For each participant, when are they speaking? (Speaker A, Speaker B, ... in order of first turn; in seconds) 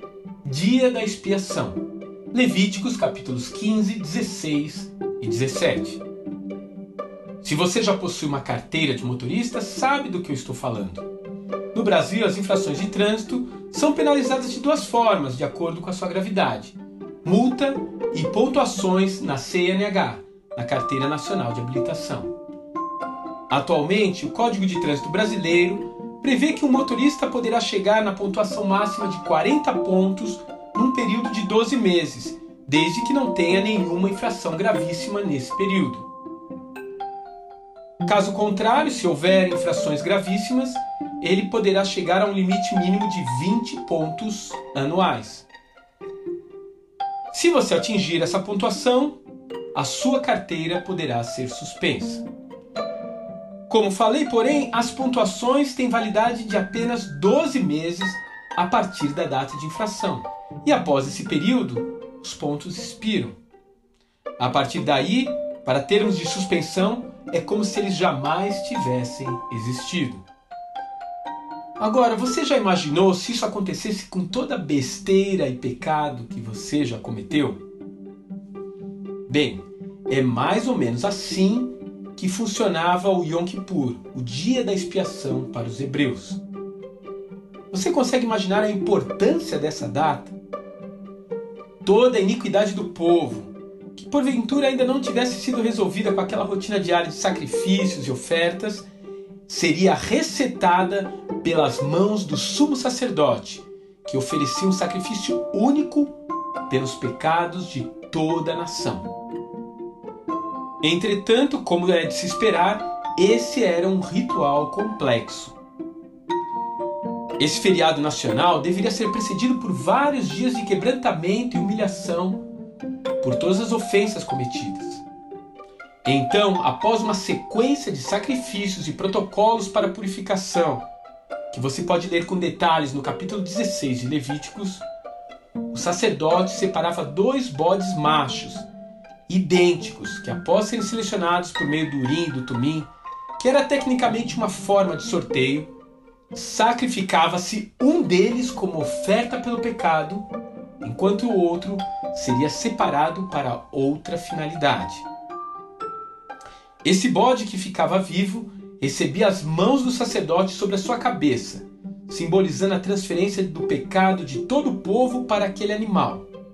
Speaker A: 0.4-6.0, 7.4-11.1, 11.7-22.3, 23.5-36.1, 38.0-45.5, 47.3-49.2, 49.7-52.2, 53.7-63.4, 64.4-70.2, 71.8-77.6, 79.3-86.4, 87.7-90.3, 91.8-98.9, 99.5-106.2, 106.7-109.1, 110.8-115.5, 117.4-122.5, 123.2-125.0, 126.0-130.8, 131.5-134.8, 135.7-138.7, 139.3-142.9, 143.4-145.7, 146.3-150.3, 150.8-155.1, 156.8-166.3